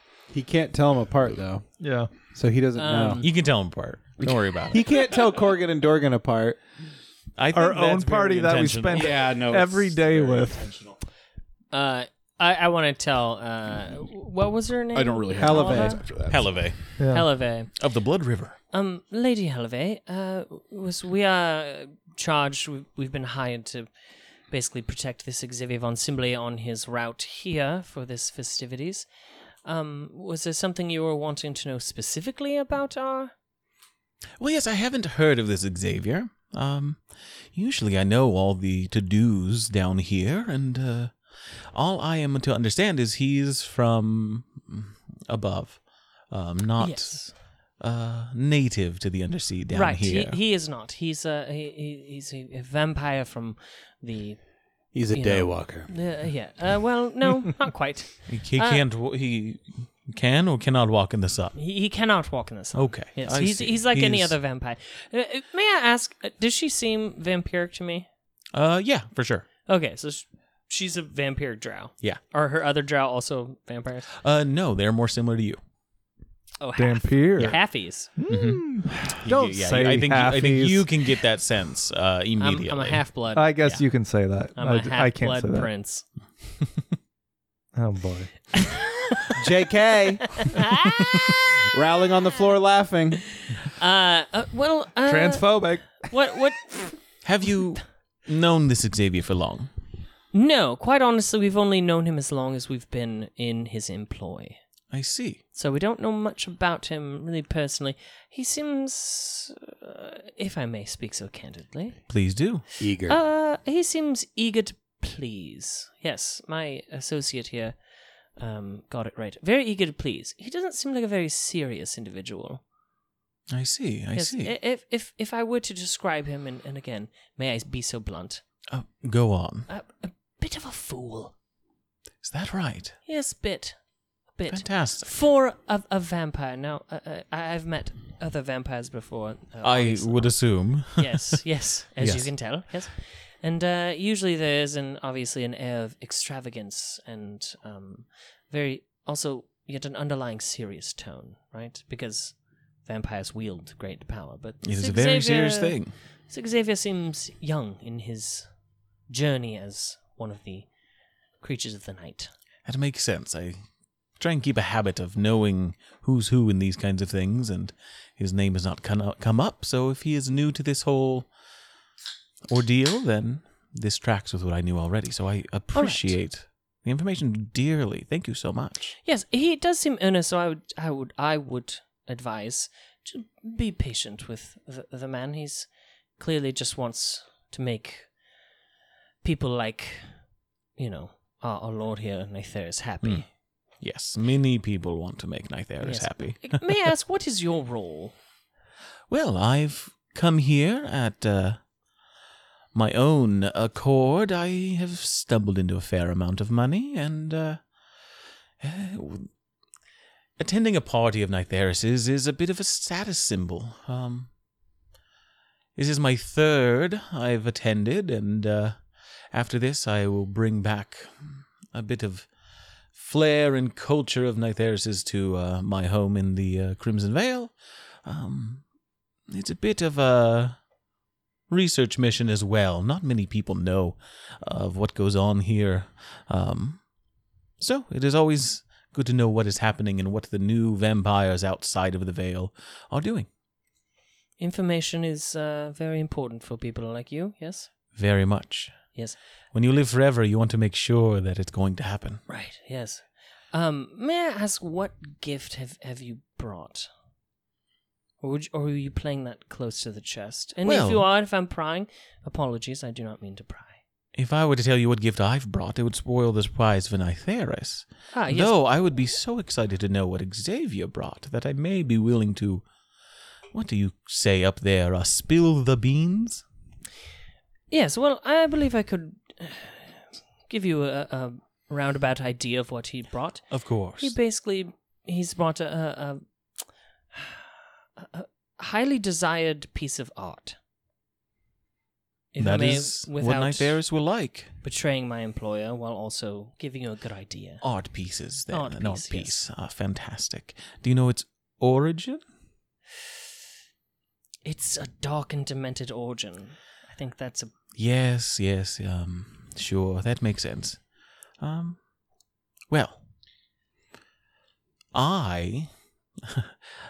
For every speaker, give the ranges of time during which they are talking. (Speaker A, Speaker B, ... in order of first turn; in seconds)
Speaker A: 0.3-1.6, 2.3-3.2, 4.7-6.6, 15.4-16.1, 54.9-55.9, 89.4-90.5, 91.7-93.2, 112.8-113.2
Speaker B: 1.8-2.1, 7.5-10.7, 17.0-17.3, 76.8-77.6, 78.1-81.1, 83.3-85.7, 87.8-88.3, 95.0-96.1
Speaker C: 2.8-3.3, 11.7-16.0, 17.1-17.7, 18.7-23.9, 24.5-29.1, 29.6-33.3, 46.8-47.3, 49.7-58.9, 61.5-68.1, 69.7-74.1, 76.6-78.1, 82.4-83.8, 84.5-86.0, 90.3-91.2, 93.6-97.0, 100.3-104.6, 105.5-112.0, 113.0-117.8, 118.3-122.6, 124.1-128.4, 129.7-131.3, 133.1-133.8, 134.3-155.8, 156.3-158.5, 159.1-160.7, 161.4-162.3, 175.7-176.2, 179.0-188.1, 189.2-190.2, 190.8-193.3, 195.8-198.1, 244.4-247.7, 252.3-256.9, 258.2-263.8, 268.1-268.5, 277.7-283.4, 284.0-286.2, 287.1-287.4, 288.0-290.6, 292.3-293.8, 294.6-297.6, 298.5-299.3, 304.4-307.5
Speaker D: 3.2-4.8, 7.4-9.3, 16.3-16.8, 17.8-18.6, 34.4-41.2, 41.7-50.4, 58.3-61.5, 62.7-64.3, 68.5-69.5, 74.2-75.6, 78.3-78.6, 79.2-83.0, 97.2-99.7, 104.9-105.4, 112.1-112.6, 123.5-124.5, 128.7-129.7, 132.2-133.0, 134.5-135.1, 139.6-141.4, 142.0-142.3, 154.6-155.9, 162.7-163.6, 164.2-171.3, 172.5-178.9, 193.8-196.6, 199.1-201.6, 202.7-207.6, 208.6-209.3, 210.4-214.3, 215.8-218.8, 219.3-222.3, 222.9-227.5, 228.0-228.6, 229.3-230.6, 231.5-236.8, 237.6-243.3, 247.9-248.9, 249.5-252.2, 260.6-261.1, 264.1-272.6, 273.5-276.4, 283.5-284.1, 292.4-294.5, 297.6-302.2, 307.8-310.8, 311.4-311.8, 312.7-313.0, 314.9-315.7, 316.2-316.5
Speaker E: 8.9-11.0, 14.9-16.6